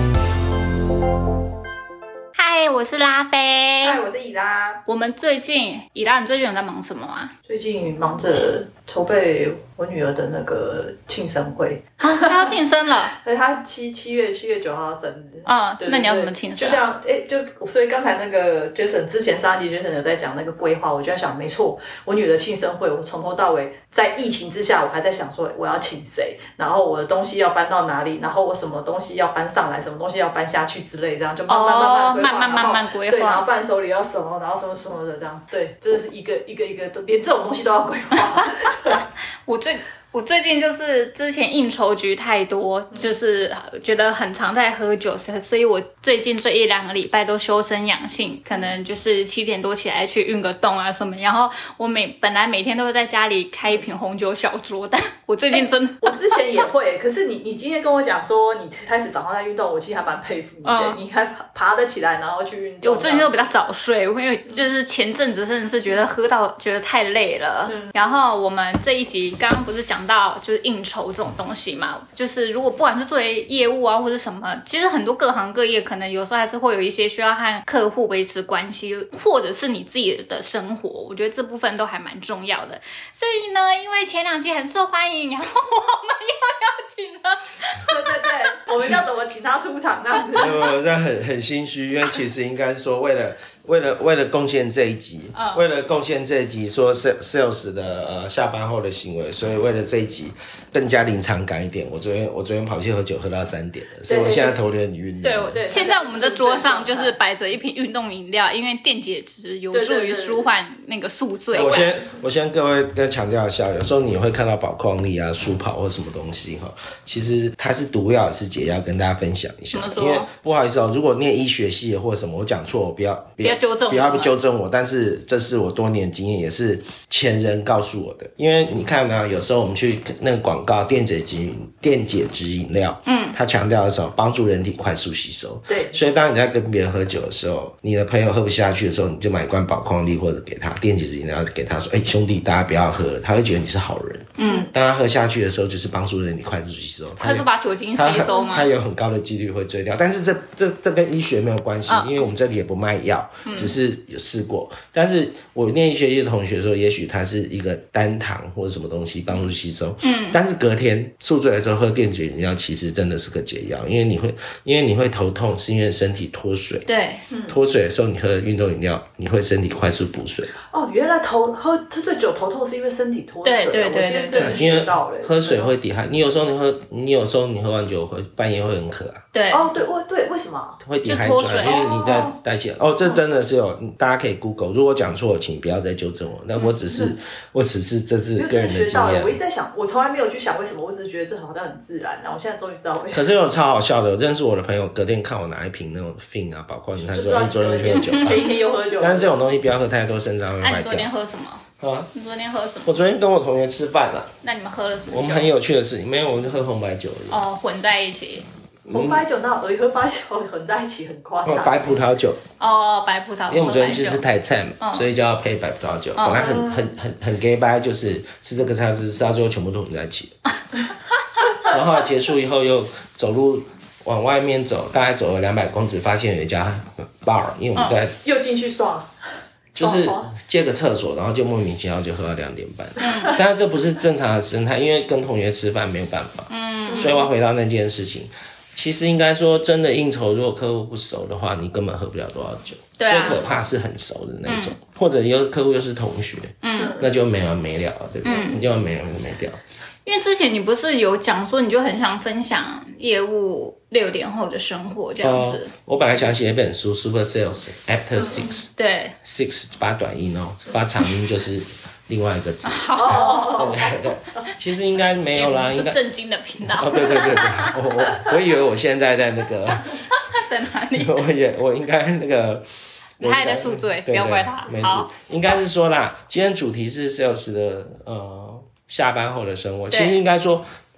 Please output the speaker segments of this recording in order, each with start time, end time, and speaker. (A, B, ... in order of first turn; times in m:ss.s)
0:02.4-0:04.0 A
0:03.8-0:04.8 B
0:04.8-0:07.3 A
0:07.5-0:12.5 B
0:12.0-0:13.1 A
0:13.1-0:39.0 B
0:15.4-0:16.8 A
0:31.5-0:33.4 A
0:39.4-0:56.2 A
0:55.5-1:03.5 B
1:00.6-1:01.0 A
1:02.8-1:28.7 A
1:07.7-1:08.1 B
1:27.8-1:30.6 B
1:30.4-1:45.6 C
1:35.3-1:35.6 A
1:44.0-1:44.6 B
1:45.2-1:52.0 A
1:45.4-1:47.1 B
1:49.7-1:50.5 B
1:51.5-2:46.8 C
1:51.5-1:51.8 B
1:59.7-2:00.3 A
2:03.4-2:04.3 A
2:13.0-2:13.4 A
2:15.7-2:16.0 B
2:24.4-2:24.7 A
2:24.4-2:24.7 B
2:27.2-2:28.7 A
2:31.9-2:32.3 A
2:33.4-2:33.7 A
2:40.0-2:40.4 A
2:46.8-2:47.2 A
2:47.3-2:47.6 B
2:47.5-2:50.5 C
2:50.7-2:55.7 B
2:53.4-2:54.6 A
2:54.3-2:59.2 C
2:59.3-2:59.7 A
2:59.5-3:00.8 B
3:00.8-3:09.4 C
3:01.0-3:02.3 A
3:01.6-3:02.3 B
3:06.9-3:07.1 B
3:08.4-3:13.4 B
3:13.1-3:21.1 C
3:17.0-3:19.4 B
3:17.9-3:18.3 A
3:20.6-3:23.0 A
3:21.8-3:22.1 C
3:22.8-3:24.3 C
3:24.4-3:25.5 A
3:25.1-3:27.4 C
3:27.3-3:28.5 A
3:28.8-3:29.2 C
3:28.9-3:31.9 B
3:31.4-3:32.4 C
3:32.6-3:34.2 A
3:33.5-3:40.3 C
3:34.8-3:35.0 A
3:36.2-3:36.6 A
3:36.4-3:36.9 B
3:41.6-3:48.1 C
3:48.2-3:49.1 B
3:49.7-4:09.6 C
3:49.8-3:50.3 B
3:53.0-3:53.3 B
3:53.0-3:53.4 A
3:56.5-3:57.3 A
3:56.9-3:57.2 B
4:03.0-4:03.4 A
4:04.4-4:04.7 A
4:06.6-4:07.0 A
4:06.8-4:07.1 B
4:08.2-4:08.6 A
4:10.0-4:15.7 A
4:15.2-4:18.7 C
4:18.2-4:18.5 B
4:18.7-4:19.1 A
4:19.2-4:26.0 C
4:22.6-4:23.8 A
4:22.9-4:24.2 B
4:25.3-4:27.8 A
4:26.6-4:30.0 C
4:29.9-4:31.2 A
4:30.9-4:32.6 C
4:33.2-4:35.1 A
4:33.2-4:40.6 C
4:39.9-4:40.2 A